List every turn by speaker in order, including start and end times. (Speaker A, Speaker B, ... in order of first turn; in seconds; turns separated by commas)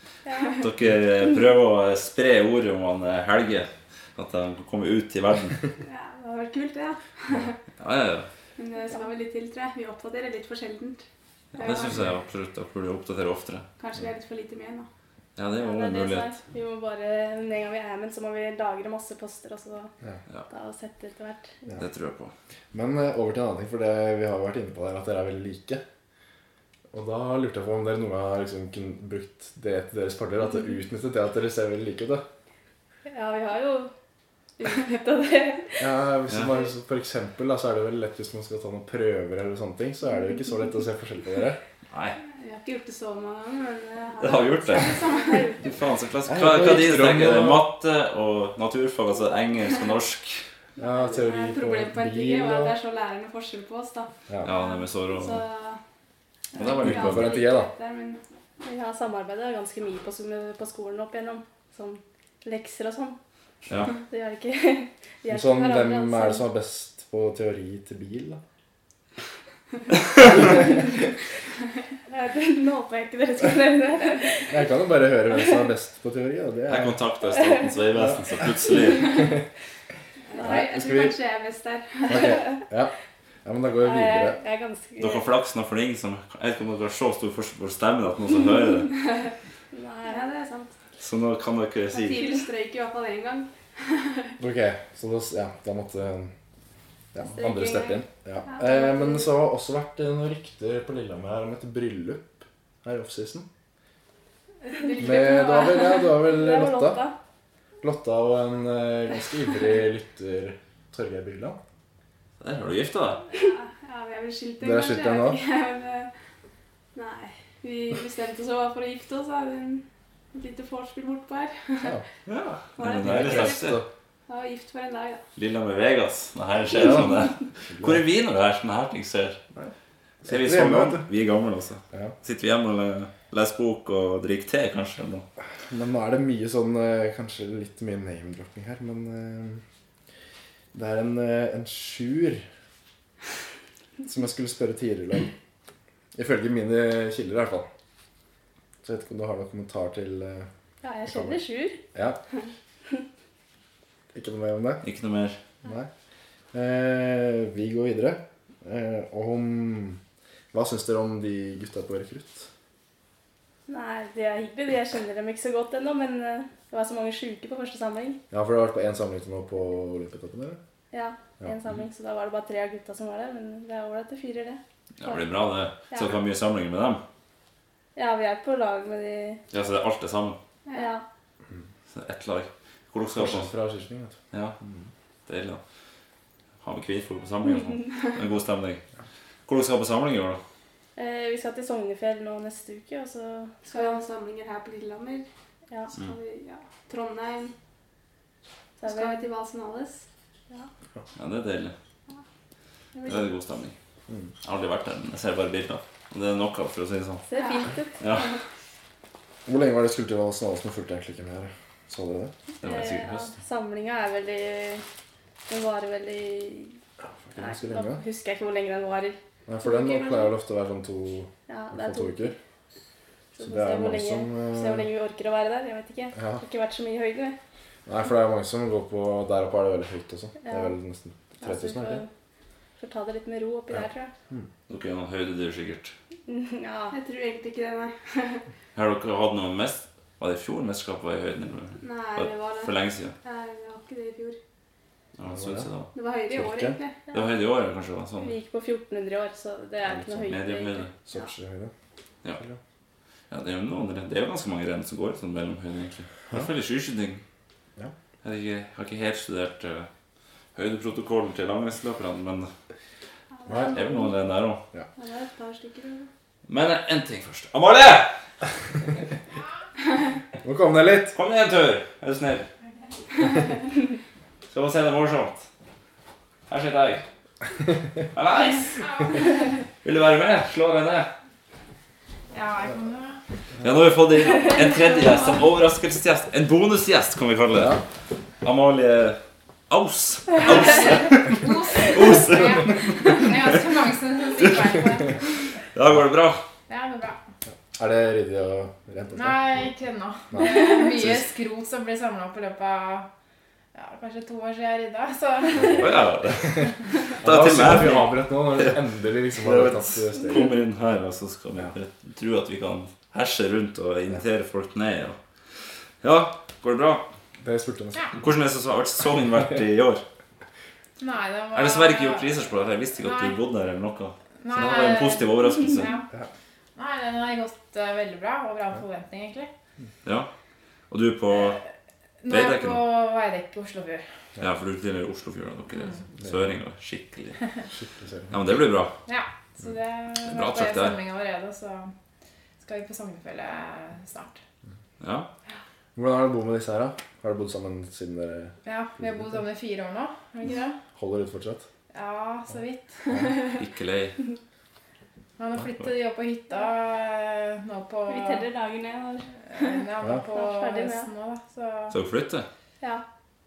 Speaker A: 0.2-0.6, Speaker B: 0.5-5.6, Speaker C: 5.8-7.5, Speaker B: 7.8-8.3, Speaker C: 8.6-12.0, Speaker B: 11.6-13.6, Speaker C: 13.8-14.9, Speaker B: 15.3-16.3, Speaker A: 15.6-19.9, Speaker A: 20.5-21.8, Speaker B: 21.8-22.3, Speaker D: 22.7-25.8, Speaker D: 26.9-32.2, Speaker A: 33.1-33.9, Speaker A: 34.6-35.8, Speaker D: 35.8-41.6, Speaker B: 41.9-42.2, Speaker C: 42.2-45.6, Speaker B: 44.2-45.0, Speaker A: 45.0-45.6, Speaker B: 45.6-50.4, Speaker D: 46.2-47.7, Speaker D: 50.8-52.8, Speaker C: 50.8-55.8, Speaker B: 54.4-55.4, Speaker C: 56.5-58.2, Speaker B: 56.5-57.4, Speaker D: 56.8-57.7, Speaker A: 58.6-63.2, Speaker B: 63.6-63.9, Speaker A: 64.1-66.5, Speaker D: 65.3-68.4, Speaker A: 72.1-74.5, Speaker D: 74.5-76.9, Speaker B: 76.7-79.3, Speaker A: 77.4-77.7, Speaker C: 80.3-82.4, Speaker A: 80.3-80.6, Speaker D: 80.4-81.1, Speaker D: 82.1-82.9, Speaker A: 82.2-82.5, Speaker D: 83.4-84.4, Speaker A: 83.8-85.2, Speaker B: 85.0-88.9, Speaker A: 89.7-90.3, Speaker C: 90.0-90.7, Speaker B: 91.0-92.3, Speaker C: 91.9-94.3, Speaker D: 94.4-96.3, Speaker D: 97.1-103.5, Speaker A: 97.3-98.0, Speaker C: 104.6-106.1, Speaker D: 105.0-107.0, Speaker A: 105.9-107.1, Speaker D: 107.8-111.6, Speaker B: 112.4-113.2, Speaker C: 113.3-116.1, Speaker D: 114.6-115.4, Speaker C: 116.9-122.0, Speaker B: 122.2-123.8, Speaker C: 122.8-123.7, Speaker D: 123.0-123.9, Speaker C: 124.3-125.2, Speaker B: 125.3-129.4, Speaker D: 127.7-128.0, Speaker D: 130.2-131.1, Speaker B: 130.2-135.2, Speaker D: 135.7-139.6, Speaker D: 140.7-142.4, Speaker D: 144.0-145.3, Speaker D: 146.1-147.7, Speaker D: 148.8-150.5, Speaker A: 150.8-151.8, Speaker D: 151.1-151.4, Speaker D: 151.9-152.2, Speaker D: 154.1-154.8, Speaker B: 154.8-155.4, Speaker D: 155.6-155.9, Speaker D: 156.5-160.0, Speaker D: 160.5-162.5, Speaker A: 163.7-168.2, Speaker D: 168.3-170.6, Speaker A: 170.9-175.2, Speaker B: 175.0-177.0, Speaker A: 175.9-176.2, Speaker A: 177.9-179.4, Speaker B: 179.5-180.4, Speaker A: 180.7-181.0, Speaker B: 181.9-183.5, Speaker D: 183.2-184.9, Speaker B: 185.3-185.6, Speaker B: 186.6-188.8, Speaker B: 189.4-190.4, Speaker A: 190.9-194.0, Speaker C: 193.7-195.2, Speaker C: 195.9-197.5, Speaker A: 198.8-199.2, Speaker C: 198.8-200.1, Speaker B: 201.1-201.7, Speaker C: 202.9-203.2, Speaker B: 203.1-203.8, Speaker B: 204.4-207.2, Speaker A: 207.3-208.4, Speaker C: 207.3-207.7, Speaker B: 208.0-208.3, Speaker D: 209.4-212.3, Speaker B: 212.6-213.3, Speaker A: 212.6-214.8, Speaker A: 215.5-216.8, Speaker D: 217.0-218.0, Speaker A: 217.4-219.2, Speaker D: 219.5-222.3, Speaker C: 219.6-220.1, Speaker A: 221.5-222.3, Speaker A: 223.3-227.4, Speaker D: 223.4-224.9, Speaker D: 226.2-226.4, Speaker D: 227.8-232.0, Speaker A: 230.4-230.7, Speaker A: 231.4-232.1, Speaker A: 232.8-234.1, Speaker B: 234.7-235.9, Speaker A: 236.3-236.9, Speaker C: 236.9-238.4, Speaker B: 238.7-243.1, Speaker C: 241.8-244.4, Speaker B: 245.2-245.9, Speaker D: 245.3-245.7, Speaker C: 245.9-247.0, Speaker D: 246.3-246.8, Speaker B: 247.1-248.3, Speaker A: 248.2-251.1, Speaker D: 249.9-250.2, Speaker B: 250.2-250.9, Speaker D: 251.1-251.7, Speaker B: 253.3-257.2, Speaker B: 258.2-259.9, Speaker B: 260.5-262.5, Speaker A: 263.4-264.3, Speaker C: 263.5-263.9, Speaker B: 263.7-264.6, Speaker C: 265.0-266.1, Speaker A: 265.1-265.9, Speaker B: 266.5-268.1, Speaker D: 270.4-271.1, Speaker B: 271.1-272.5, Speaker B: 274.5-275.5, Speaker B: 276.5-277.0, Speaker B: 278.1-279.2, Speaker B: 279.8-281.1, Speaker E: 282.3-283.2, Speaker B: 283.6-287.8, Speaker C: 284.3-285.3, Speaker B: 288.4-293.2, Speaker E: 290.4-295.2, Speaker B: 294.4-296.4, Speaker E: 296.7-297.2, Speaker D: 297.8-299.5, Speaker E: 299.1-303.1, Speaker E: 303.7-305.9, Speaker B: 305.7-308.8, Speaker D: 307.2-310.6, Speaker B: 309.4-315.2, Speaker B: 316.0-317.0, Speaker D: 317.4-318.1, Speaker B: 318.1-320.0, Speaker E: 321.0-322.4, Speaker B: 321.5-325.9, Speaker E: 323.0-323.4, Speaker E: 324.4-326.1, Speaker E: 326.7-329.5, Speaker B: 330.0-330.3, Speaker B: 330.9-331.6, Speaker E: 332.2-334.0, Speaker B: 332.3-332.9, Speaker B: 334.4-337.4, Speaker E: 335.7-336.0, Speaker D: 337.7-338.3, Speaker B: 338.3-338.9, Speaker E: 339.1-341.9, Speaker B: 340.3-341.0, Speaker E: 342.6-344.4, Speaker B: 345.0-345.3, Speaker D: 345.9-349.3, Speaker E: 348.6-350.8, Speaker D: 350.9-351.7, Speaker E: 351.9-353.5, Speaker B: 353.6-354.1, Speaker E: 355.4-358.4, Speaker A: 358.1-361.1, Speaker E: 359.5-362.0, Speaker B: 361.9-362.5